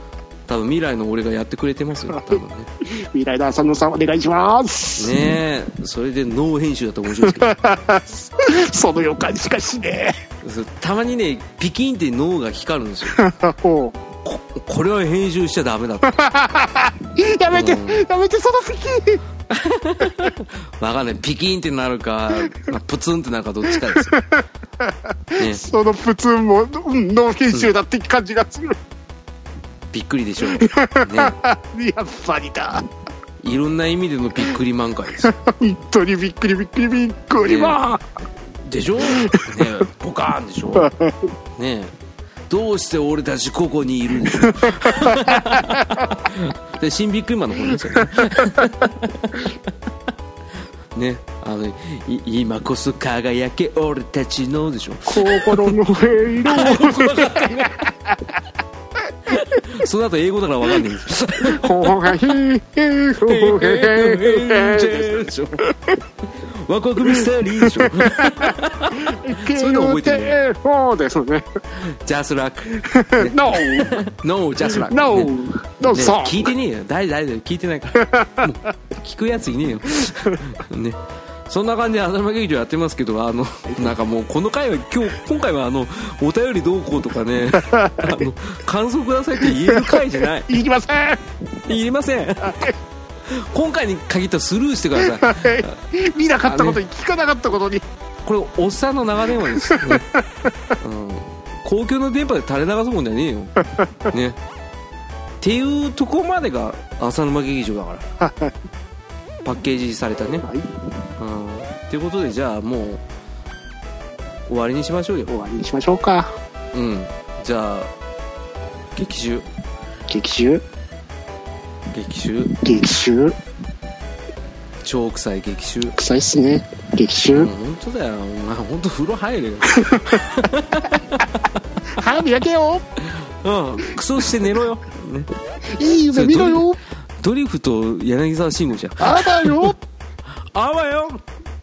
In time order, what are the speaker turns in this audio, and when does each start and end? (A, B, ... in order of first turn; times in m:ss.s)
0:00.4-0:02.7 A
0:02.3-0:05.1 B
0:05.0-0:07.5 A
0:07.2-0:10.2 B
0:10.4-0:13.2 A
0:13.1-0:14.0 B
0:14.2-0:16.1 A
0:16.0-0:19.2 B
0:17.5-0:18.0 A
0:19.5-0:24.1 A
0:23.8-0:28.8 B
0:29.9-0:31.4 A
0:30.5-0:32.8 B
0:33.4-0:35.3 A
0:35.3-0:38.0 B
0:37.4-0:37.8 A
0:38.6-0:40.9 A
0:39.1-0:39.5 B
0:40.8-0:41.3 B
0:41.6-0:41.9 A
0:42.5-0:49.7 A
0:44.4-0:46.1 B
0:48.0-0:48.4 B
0:50.9-0:55.8 A
0:55.1-0:57.9 B
0:56.4-0:57.8 A
0:59.3-1:02.3 A
1:01.4-1:06.0 B
1:03.2-1:05.6 A
1:06.2-1:10.4 A
1:07.0-1:11.4 B
1:11.7-1:15.3 A
1:12.7-1:14.0 B
1:14.6-1:16.5 B
1:15.9-1:30.6 A
1:18.0-1:18.5 B
1:27.5-1:28.3 B
1:29.6-1:31.2 B
1:31.6-1:32.7 A
1:33.2-1:35.7 A
1:35.0-1:37.8 B
1:36.4-1:36.8 A
1:38.2-1:40.0 A
1:39.7-1:40.0 B
1:40.8-1:43.5 A
1:44.1-1:44.4 A
1:45.4-1:48.0 A
1:48.2-1:48.5 B
1:49.4-1:50.4 A
1:50.4-1:50.7 B
1:51.2-1:53.0 A
1:54.5-1:55.3 A
1:55.3-1:56.3 B
1:56.7-1:57.9 A
1:58.9-1:59.4 A
2:00.1-2:00.6 B
2:01.9-2:02.6 A
2:02.6-2:03.4 B
2:04.8-2:05.9 A
2:06.0-2:07.5 B
2:07.3-2:11.8 A
2:09.9-2:10.2 B
2:11.9-2:12.8 B
2:13.0-2:15.3 A
2:15.7-2:16.8 B
2:16.1-2:19.7 A
2:19.0-2:19.8 B
2:20.5-2:21.2 A